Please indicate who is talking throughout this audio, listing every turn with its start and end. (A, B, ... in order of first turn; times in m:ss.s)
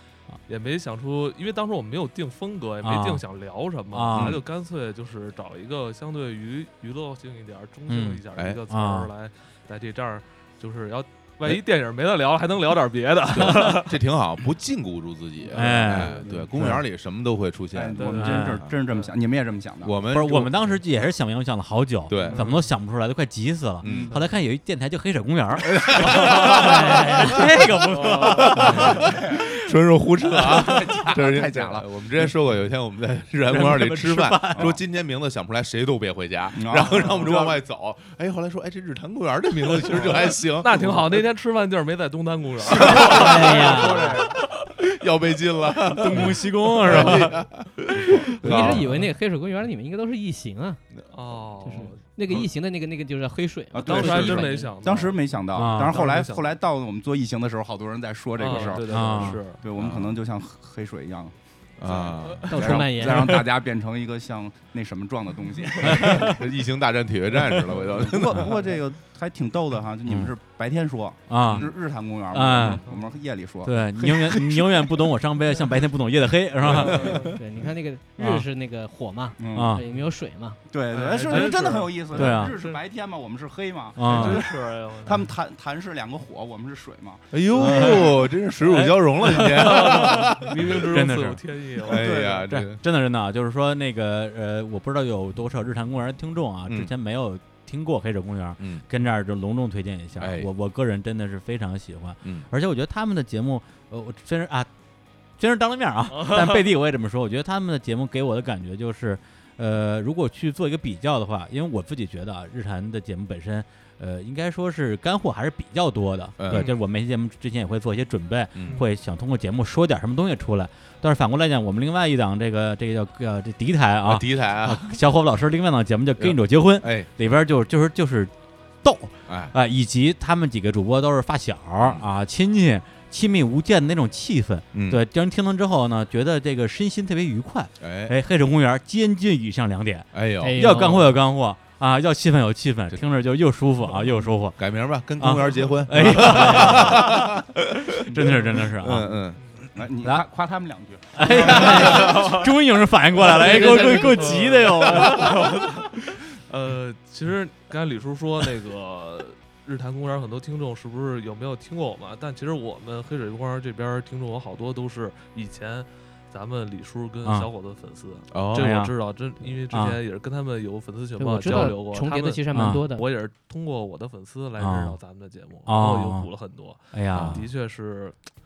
0:00.5-0:14.0 A
0:02.8-0:03.2 B
0:03.9-0:04.4 B
0:07.9-0:09.1 B
0:13.3-0:18.7 C
0:15.5-0:16.2 B
0:15.9-0:16.3 A
0:16.2-0:16.8 D
0:17.7-0:20.0 D
0:18.0-0:18.4 A
0:18.1-0:18.6 B
0:19.8-0:20.8 C
0:20.1-0:29.7 B
0:22.1-0:22.5 C
0:22.2-0:22.6 A
0:23.8-0:24.2 C
0:23.8-0:24.1 D
0:25.6-0:41.2 C
0:26.2-0:26.6 A
0:26.6-0:27.4 E
0:27.9-0:28.7 A
0:28.7-0:29.4 D
0:30.4-0:32.3 D
0:30.4-0:31.0 B
0:33.5-0:34.8 B
0:36.5-0:37.6 D
0:40.6-0:44.4 A
0:42.7-0:48.8 C
0:43.0-0:44.2 E
0:45.9-0:47.4 B
0:48.2-0:48.9 B
0:48.4-0:50.8 E
0:51.1-0:52.0 A
0:51.6-0:54.8 E
0:53.7-1:01.3 D
0:53.8-0:56.4 A
0:55.5-0:56.1 B
0:58.4-0:59.6 A
0:58.9-0:59.4 B
0:59.8-1:00.1 C
1:01.8-1:02.9 C
1:01.8-1:06.4 D
1:02.4-1:03.5 E
1:05.8-1:06.3 B
1:05.9-1:08.6 C
1:07.8-1:15.1 D
1:10.1-1:10.3 B
1:11.3-1:11.7 B
1:11.4-1:11.7 C
1:12.3-1:12.8 B
1:13.6-1:17.3 B
1:16.7-1:17.1 D
1:16.8-1:17.3 A
1:17.3-1:20.6 E
1:18.2-1:18.4 B
1:19.4-1:19.8 D
1:19.5-1:19.8 B
1:20.7-1:27.9 D
1:20.9-1:22.8 A
1:22.1-1:22.6 B
1:24.0-1:24.4 B
1:24.0-1:25.2 A
1:27.3-1:30.8 C
1:27.6-1:30.2 B
1:29.3-1:32.1 A
1:30.8-1:31.4 B
1:31.8-1:32.8 C
1:31.9-1:32.5 D
1:32.5-1:44.7 B
1:36.7-1:36.9 C
1:38.6-1:38.9 C
1:40.2-1:40.5 C
1:42.2-1:42.5 C
1:45.4-2:08.3 B
1:46.1-1:46.6 A
1:56.4-1:56.7 C
1:56.5-1:56.8 A
1:58.5-1:58.8 C
2:04.0-2:05.0 C
2:06.2-2:07.1 C
2:08.8-2:24.6 B
2:09.3-2:09.5 C
2:11.8-2:12.0 C
2:14.7-2:15.0 C
2:17.8-2:18.2 C
2:20.1-2:20.6 C
2:20.4-2:21.1 E
2:24.6-2:29.6 C
2:25.2-2:27.3 B
2:28.1-2:29.1 B
2:29.7-2:32.3 D
2:31.1-2:35.6 B
2:31.4-2:32.3 C
2:31.7-2:32.2 A
2:33.2-2:58.2 A
2:48.3-2:48.7 C
2:48.6-2:48.9 B
2:49.7-2:50.0 B
2:51.2-2:53.0 E
2:51.4-2:51.7 B
2:52.5-2:52.9 B
2:54.6-2:55.0 B
2:55.6-2:56.3 B
2:56.9-2:57.4 B
2:57.1-2:57.4 C